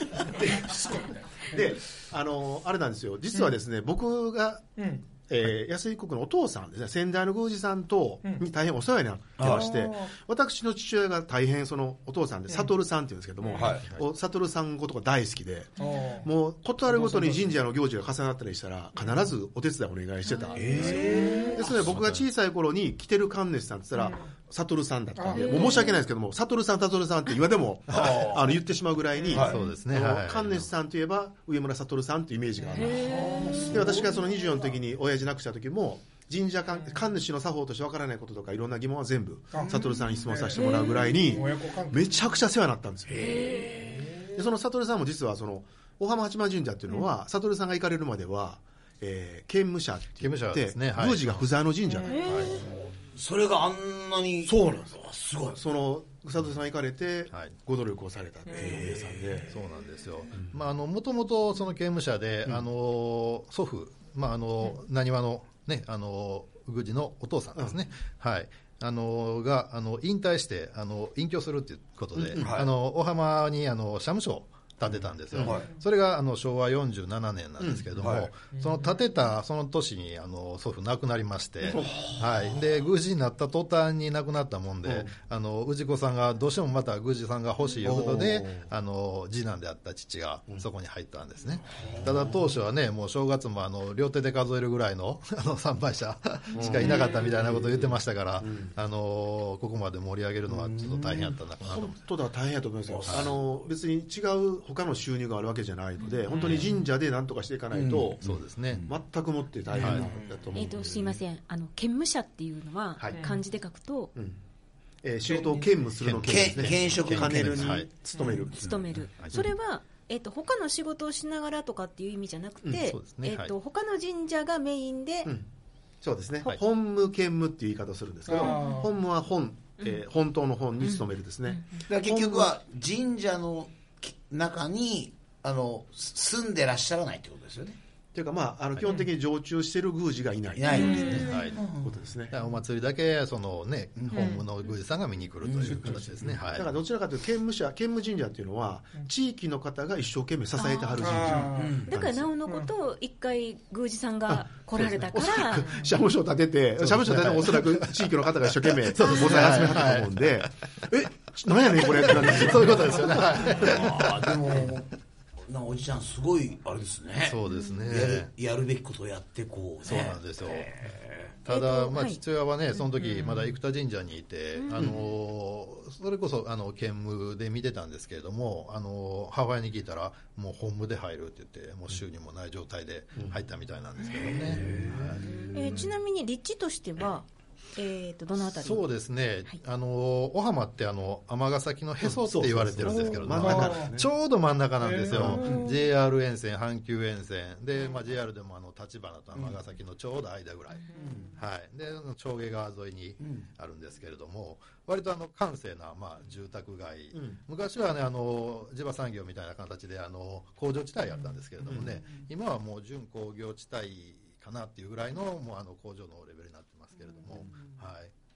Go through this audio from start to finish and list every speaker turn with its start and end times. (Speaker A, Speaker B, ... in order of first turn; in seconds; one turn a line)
Speaker A: 0.2-1.5
Speaker B: 1.5-4.7
Speaker A: 4.8-5.0
Speaker B: 5.3-43.6
Speaker C: 9.4-9.7
Speaker A: 9.4-10.2
Speaker C: 13.5-13.9
Speaker A: 15.8-16.3
Speaker A: 16.9-17.6
Speaker D: 20.3-21.6
Speaker C: 20.6-22.1
Speaker A: 20.7-21.6
Speaker E: 21.9-22.2
Speaker A: 24.0-24.2
Speaker A: 25.2-25.9
Speaker D: 25.4-26.0
Speaker C: 27.9-28.5
Speaker C: 29.3-29.6
Speaker E: 29.3-30.7
Speaker D: 32.7-33.7
Speaker A: 33.1-34.0
Speaker C: 33.1-34.0
Speaker A: 39.5-42.1
Speaker D: 40.5-41.1
Speaker C: 43.1-44.1
Speaker D: 43.2-43.8
Speaker B: 44.4-52.5
Speaker E: 50.2-51.5
Speaker D: 52.0-52.5
Speaker E: 52.1-52.6
Speaker C: 52.5-55.6
Speaker B: 54.5-54.9
Speaker B: 55.5-59.6
Speaker C: 58.5-59.5
Speaker E: 59.5-102.1
Speaker B: 72.2-72.7
Speaker C: 72.4-72.7
Speaker B: 75.3-75.6
Speaker C: 75.4-75.7
Speaker B: 77.6-77.9
Speaker C: 78.0-78.3
Speaker B: 81.7-82.1
Speaker B: 84.9-85.1
Speaker B: 87.8-88.7
Speaker B: 91.8-92.4
Speaker B: 96.5-98.7
Speaker D: 96.7-97.2
Speaker C: 100.5-101.3
Speaker B: 101.7-108.3
Speaker C: 102.9-103.3
Speaker E: 103.1-103.3
Speaker A: 106.3-106.7
Speaker C: 107.7-108.9
Speaker E: 108.2-108.8
Speaker B: 108.9-111.2
Speaker E: 109.8-110.1
Speaker D: 110.5-114.1
Speaker B: 115.0-119.4
Speaker A: 115.3-115.7
Speaker E: 116.0-117.9
Speaker C: 116.2-117.8
Speaker D: 118.2-125.3
Speaker E: 119.2-119.4
Speaker E: 122.8-123.5
Speaker B: 126.0-132.5
Speaker A: 128.3-128.9
Speaker D: 128.4-128.8
Speaker D: 130.8-131.6
Speaker C: 131.9-137.8
Speaker B: 138.2-142.4
Speaker C: 140.6-141.9
Speaker D: 140.7-141.3
Speaker A: 140.8-141.3
Speaker E: 141.2-141.6
Speaker E: 142.3-146.8
Speaker C: 144.0-144.3
Speaker A: 144.1-144.4
Speaker C: 145.4-145.9
Speaker A: 145.7-146.0
Speaker B: 146.2-152.3
Speaker D: 150.6-151.3
Speaker A: 151.0-151.8
Speaker C: 151.4-151.9
Speaker D: 151.8-155.8
Speaker B: 154.8-163.5
Speaker E: 156.8-157.9
Speaker E: 158.9-160.3
Speaker E: 161.9-164.7
Speaker C: 163.4-164.9
Speaker C: 165.5-171.3
Speaker E: 167.2-168.3
Speaker D: 167.5-167.8
Speaker E: 169.8-170.7
Speaker E: 171.4-185.4
Speaker D: 171.5-172.2
Speaker D: 173.0-173.4
Speaker D: 174.6-174.8
Speaker C: 184.3-185.2
Speaker B: 184.4-185.5
Speaker D: 185.5-188.9
Speaker E: 188.5-218.1
Speaker B: 192.0-194.1
Speaker A: 193.4-193.9
Speaker A: 194.8-195.5
Speaker B: 195.1-195.6
Speaker D: 195.4-195.8
Speaker C: 203.2-203.5
Speaker B: 211.7-211.9